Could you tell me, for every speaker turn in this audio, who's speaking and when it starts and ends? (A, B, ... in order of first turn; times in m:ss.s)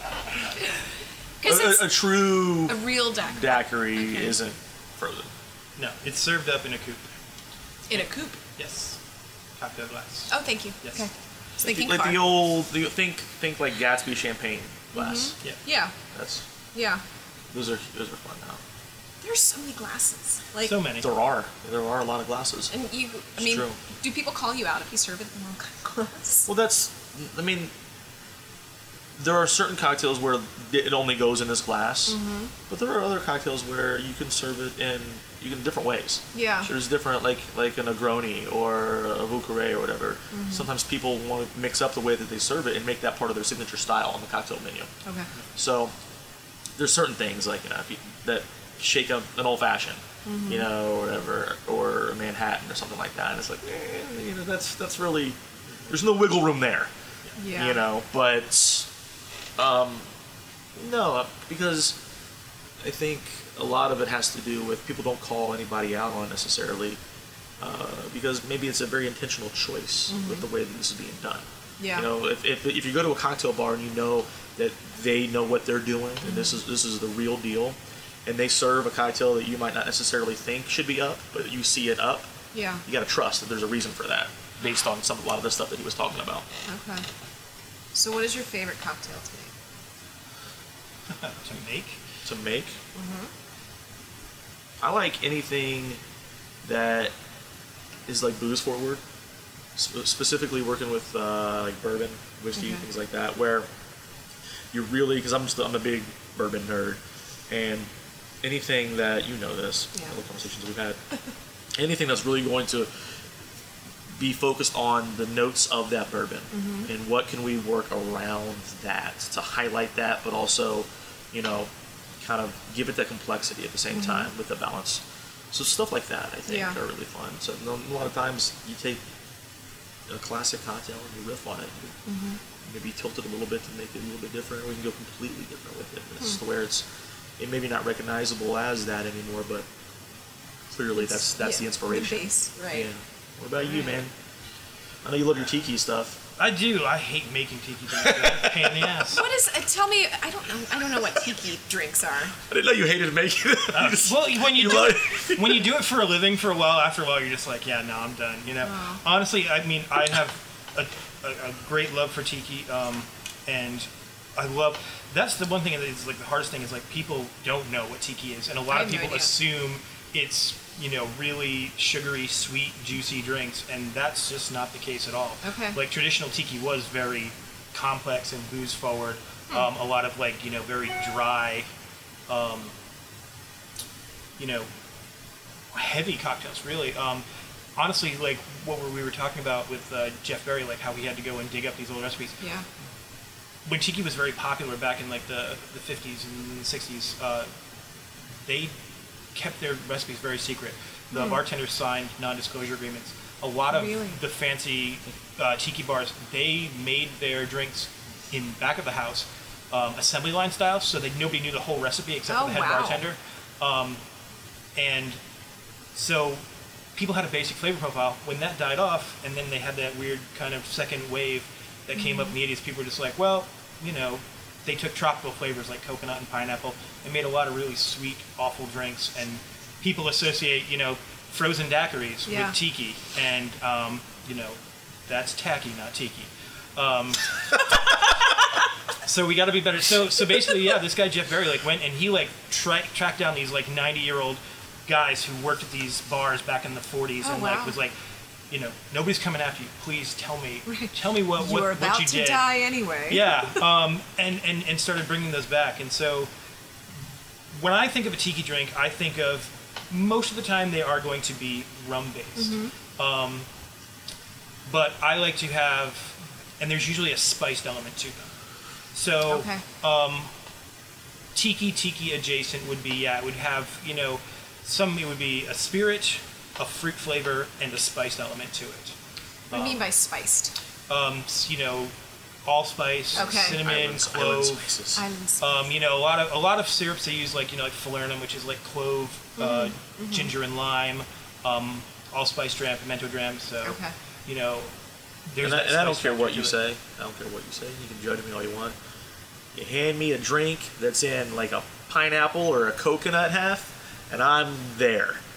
0:01.4-0:02.0 A
0:01.4-0:05.3 B
0:02.7-0:04.4 A
0:05.8-0:07.1 C
0:07.9-0:08.4 A
0:08.6-0:09.0 C
0:09.6-0:11.1 C
0:10.3-0:12.2 A
0:11.6-0:15.4 B
0:14.9-0:15.9 A
0:16.1-0:16.5 B
0:16.7-0:17.0 A
0:17.5-0:18.6 B
0:19.2-0:20.8 A
0:20.6-0:21.1 C
0:21.0-0:22.7 B
0:22.7-0:26.5 A
0:23.4-0:23.8 B
0:26.5-0:27.7 B
0:29.2-0:32.2 B
0:32.1-0:32.5 A
0:32.7-0:44.9 B
0:36.3-0:36.7 A
0:40.3-0:40.7 A
0:45.6-0:45.9 B
0:46.8-0:56.9 B
0:50.2-0:50.7 A
0:57.4-0:57.8 A
0:57.5-0:58.9 B
0:59.6-1:00.0 B
1:00.8-1:02.0 B
1:02.8-1:07.0 B
1:07.6-1:22.3 B
1:10.1-1:10.4 A
1:11.8-1:12.1 A
1:16.2-1:16.6 A
1:22.5-1:22.8 A
1:22.8-1:26.5 B
1:26.7-1:27.1 A
1:27.9-1:29.5 A
1:31.1-1:32.0 C
1:32.2-1:32.8 B
1:33.0-1:33.3 A
1:34.8-1:36.0 B
1:36.6-1:37.1 B
1:38.1-1:39.0 B
1:39.8-1:43.7 B
1:42.6-1:42.8 A
1:44.7-1:47.9 B
1:48.4-1:51.0 B
1:51.8-1:52.9 B
1:54.2-2:09.0 B
1:56.5-1:56.9 A
2:03.9-2:04.3 A
2:06.5-2:06.8 A
2:10.1-2:12.0 B
2:12.1-2:12.4 A
2:12.6-2:16.8 B
2:17.4-2:19.7 B
2:20.7-2:24.1 B
2:21.0-2:22.9 A
2:25.0-2:26.2 B
2:26.4-2:29.2 C
2:28.0-2:29.0 B
2:29.1-2:32.4 A
2:32.4-2:35.7 B
2:33.7-3:01.7 C
2:38.7-2:39.0 A
2:48.7-2:49.4 A
2:55.4-2:55.8 A
3:02.3-3:02.7 C
3:04.4-3:04.7 C
3:05.7-3:07.2 C
3:07.8-3:12.4 C
3:12.4-3:12.7 A
3:13.7-3:17.5 C
3:18.4-3:18.7 C
3:19.3-3:34.0 C
3:21.1-3:21.4 A
3:23.7-3:24.2 A
3:32.3-3:33.0 A
3:34.8-3:35.2 C
3:36.0-3:36.4 C
3:37.0-3:57.3 C
3:42.0-3:42.3 A
3:52.3-3:52.6 A
3:59.0-4:08.0 C
4:07.2-4:07.8 A
4:08.5-4:12.5 C
4:10.7-4:13.6 A
4:13.1-4:16.3 C
4:17.5-4:23.5 C
4:22.4-4:22.7 A
4:24.7-4:28.3 C
4:28.9-4:30.3 C
4:29.3-4:29.6 A
4:31.4-4:39.0 C
4:39.5-4:39.8 C
4:39.5-4:40.6 A
4:40.9-4:41.9 C
4:42.4-4:44.7 C
4:43.2-4:43.6 A
4:43.2-4:45.0 B
4:45.0-4:45.7 A
4:45.4-4:54.7 C
4:49.4-4:50.3 A
4:53.6-4:53.9 A
4:55.3-4:56.6 C
4:55.4-4:58.8 B
4:59.6-5:05.2 B